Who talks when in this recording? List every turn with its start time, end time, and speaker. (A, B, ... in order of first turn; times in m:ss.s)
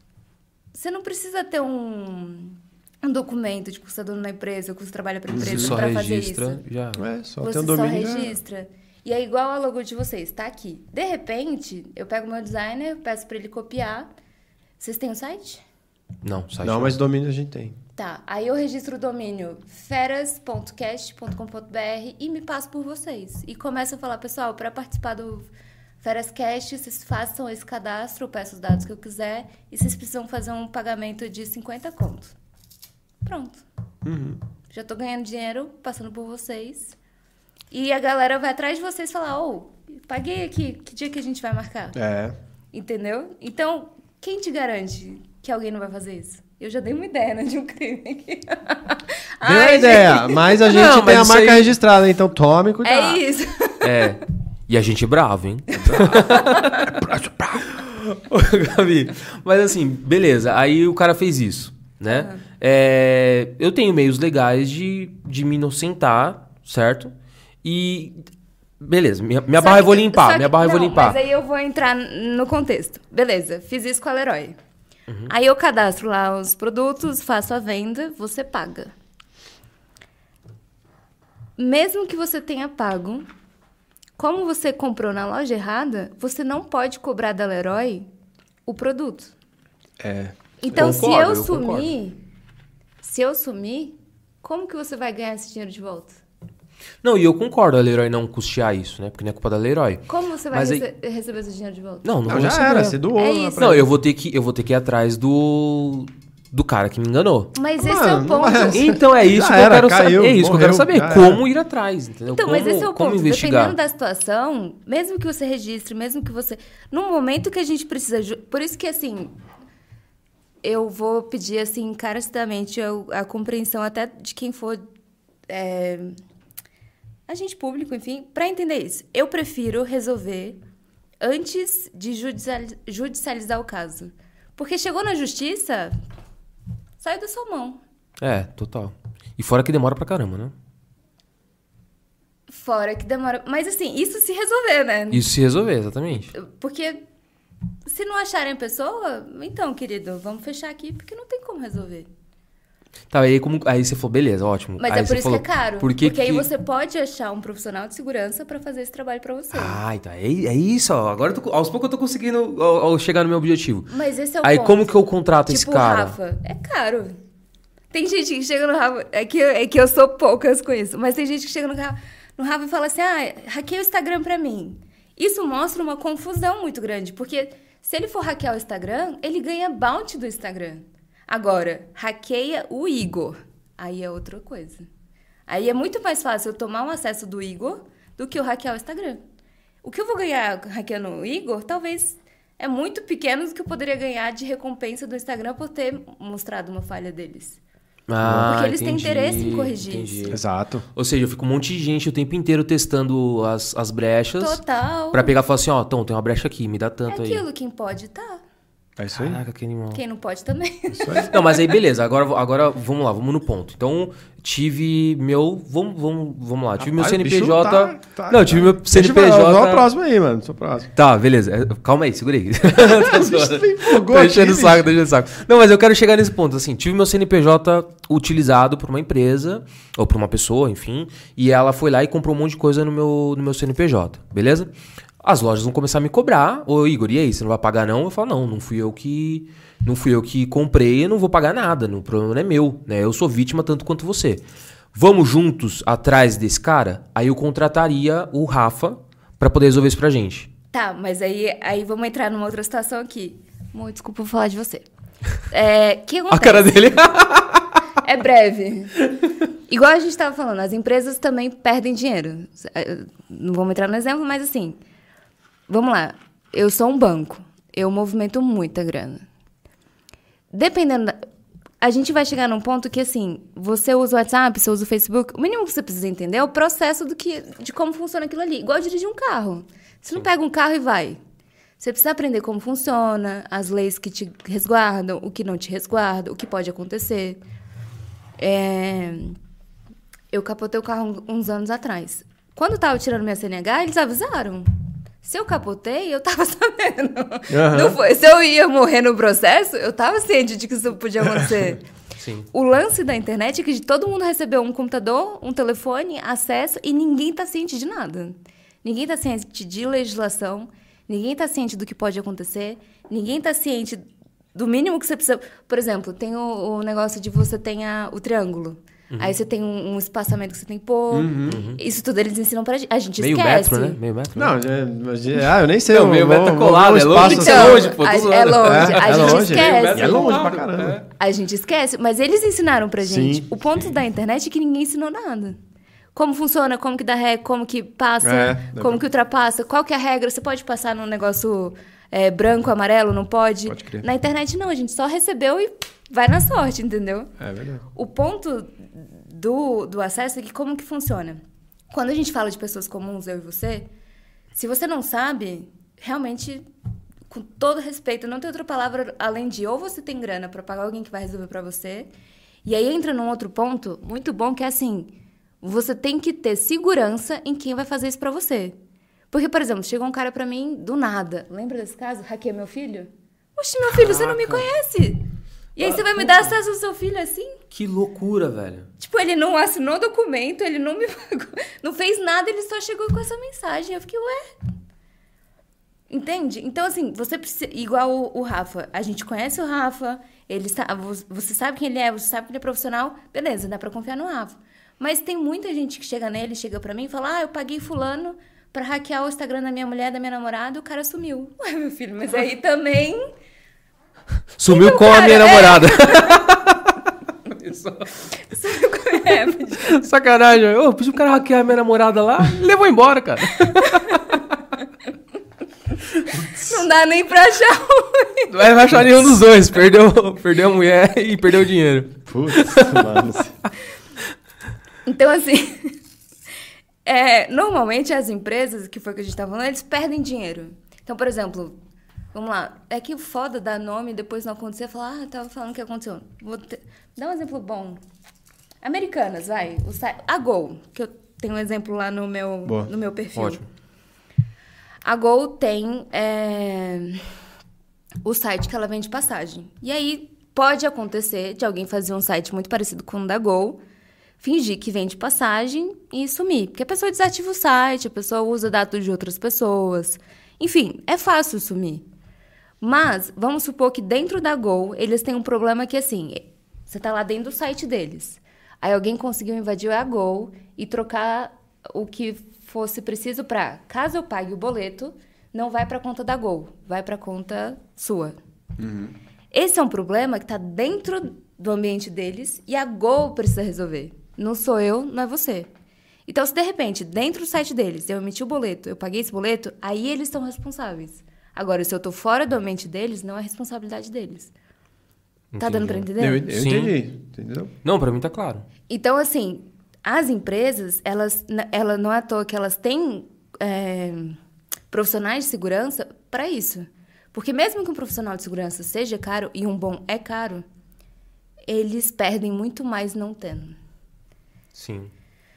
0:00.7-0:06.6 A
0:05.3-0:05.7 B
0:05.4-0:07.0 C
0:07.0-0:08.4 B
0:07.4-0:14.1 A
0:14.8-0:15.6 A
0:16.2-0:17.0 C
0:16.6-0:17.8 B
0:18.0-0:25.5 A
0:26.0-0:32.3 A
0:33.2-0:33.6 A
0:34.0-0:34.4 B
0:34.7-0:37.0 A
0:37.7-0:41.9 A
0:41.9-0:42.4 B
0:42.7-0:50.6 A
0:49.4-0:53.2 B
0:50.6-0:51.7 C
0:52.8-0:54.0 A
0:53.8-1:07.1 C
0:55.8-0:56.5 B
1:02.1-1:02.4 A
1:07.6-1:08.2 C
1:08.8-1:11.2 C
1:09.6-1:14.6 A
1:15.3-1:18.9 A
1:21.6-1:23.3 A
1:24.2-1:28.1 A
1:28.6-1:29.3 A
1:30.0-1:30.9 B
1:30.6-1:32.2 A
1:30.7-1:31.9 C
1:33.0-1:36.2 A
1:37.0-1:40.8 C
1:40.1-1:42.0 A
1:42.0-1:43.0 C
1:42.3-1:43.8 B
1:43.1-1:43.8 A
1:43.6-1:47.5 C
1:47.5-1:49.0 A
1:47.8-1:51.4 B
1:48.7-1:53.8 C
1:52.3-1:59.3 A
2:00.6-2:04.8 A
2:05.5-2:06.2 A
2:07.3-2:10.6 A
2:11.2-2:16.0 A
2:17.0-2:17.8 A
2:18.2-2:20.5 C
2:22.5-2:25.3 A
2:25.1-2:26.3 C
2:26.3-2:27.0 A
2:27.8-2:32.1 A
2:33.1-2:36.4 C
2:34.8-2:39.8 A
2:39.5-2:43.9 C
2:43.9-2:45.0 A
2:44.4-2:46.2 C
2:45.5-2:47.1 A
2:47.9-3:04.8 A
3:05.5-3:09.2 A
3:09.8-3:17.6 A
3:18.1-3:20.4 C
3:18.2-3:20.3 A
3:20.3-3:20.8 B
3:20.9-3:24.6 C
3:24.4-3:25.3 A
3:25.1-3:27.4 C
3:27.1-3:28.4 A
3:29.0-3:29.4 B
3:29.2-3:30.0 C
3:29.9-3:31.6 A
3:31.0-3:31.3 B
3:31.3-3:39.9 C
3:36.8-3:40.9 B
3:41.0-3:54.7 C
3:42.7-3:44.9 B
3:55.2-4:04.4 C
4:04.9-4:10.5 C
4:10.7-4:14.8 A
4:15.5-4:16.9 A
4:16.3-4:17.6 C
4:18.0-4:19.0 A
4:19.7-4:24.8 A
4:25.7-4:29.2 A
4:30.5-4:31.2 A
4:31.8-4:41.2 A
4:41.8-4:47.4 A
4:48.4-4:49.4 A
4:50.3-4:54.7 A
4:55.2-5:01.8 A
4:57.5-4:58.0 B
5:02.2-5:02.5 C
5:02.5-5:24.0 A
5:21.1-5:21.6 B
5:21.5-5:21.8 C
5:23.2-5:24.5 C
5:24.3-5:28.0 B
5:25.9-5:31.0 C
5:27.2-5:30.4 A
5:28.6-5:31.0 B
5:31.2-5:35.6 A
5:33.0-5:33.5 B
5:36.1-5:47.3 A
5:38.2-5:39.0 B
5:43.7-5:44.0 B
5:47.4-5:47.8 B
5:47.9-5:53.9 A
5:54.6-5:56.6 A
5:57.3-6:02.1 A
6:02.6-6:08.8 A
6:09.3-6:15.2 A
6:15.8-6:17.6 A
6:17.7-6:18.9 C
6:19.0-6:24.4 A
6:26.1-6:43.3 A
6:44.6-6:46.8 C
6:44.7-6:46.4 A
6:47.6-6:50.0 A
6:49.8-6:54.4 C
6:53.7-6:54.2 A
6:56.3-6:56.6 C
6:56.6-6:58.5 A
6:58.5-7:03.1 C
7:02.3-7:03.5 B
7:05.0-7:05.9 A
7:07.0-7:11.8 A
7:12.3-7:18.0 A
7:18.8-7:23.6 A
7:22.6-7:22.9 B
7:23.4-7:23.6 C
7:25.0-7:27.2 A
7:28.2-7:33.8 A
7:34.4-7:42.0 A
7:42.8-7:58.4 A
7:58.8-7:59.1 B
7:59.5-8:05.7 A
8:06.3-8:14.5 A
8:15.5-8:17.0 C
8:15.6-8:16.4 A
8:16.2-8:17.7 B
8:17.8-8:18.6 C
8:18.9-8:24.4 A
8:24.9-8:30.6 A
8:31.7-8:33.8 A
8:34.7-8:35.1 C